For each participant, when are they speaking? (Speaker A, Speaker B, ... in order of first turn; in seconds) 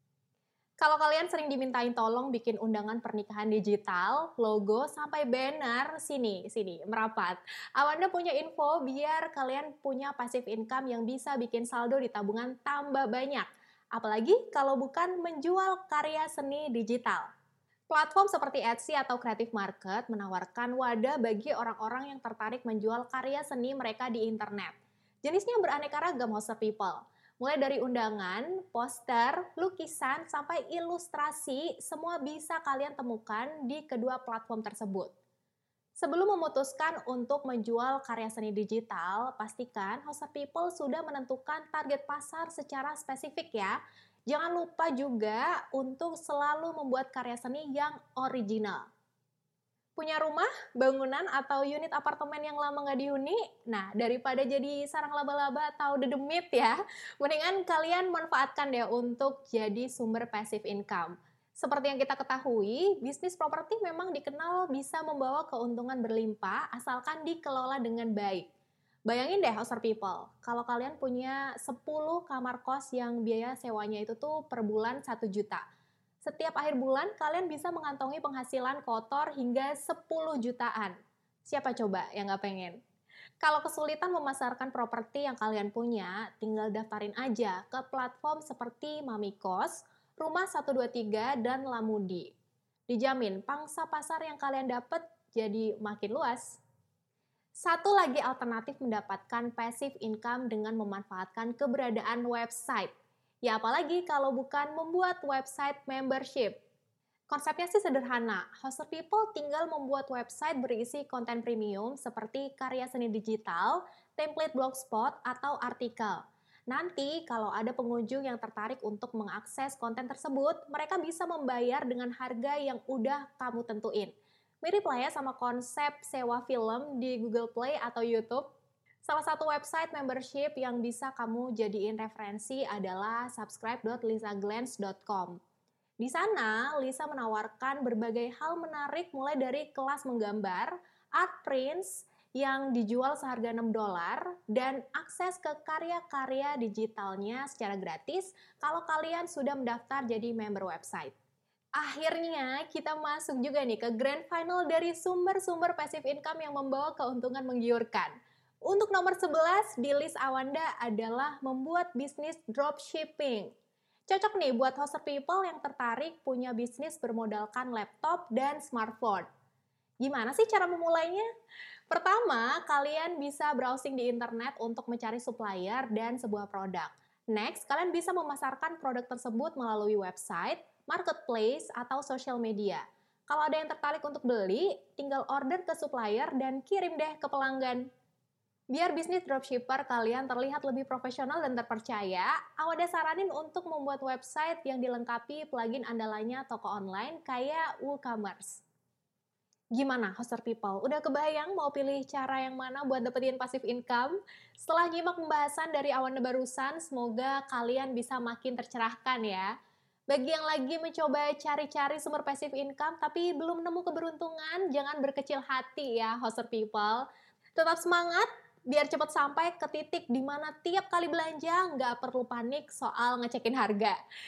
Speaker A: 0.8-17.3, 17.9-35.1, 36.0-48.9, 50.0-68.5, 69.1-75.6, 76.2-82.8, 83.4-92.3, 92.9-96.6, 97.6-102.9, 103.4-106.6, 107.3-124.1, 124.6-128.4, 129.0-135.4, 136.0-151.1, 151.8-158.1, 158.7-163.5, 164.1-169.3, 170.0-171.2, 171.9-187.9, 188.7-198.6, 199.7-209.5, 210.1-217.0, 217.6-224.0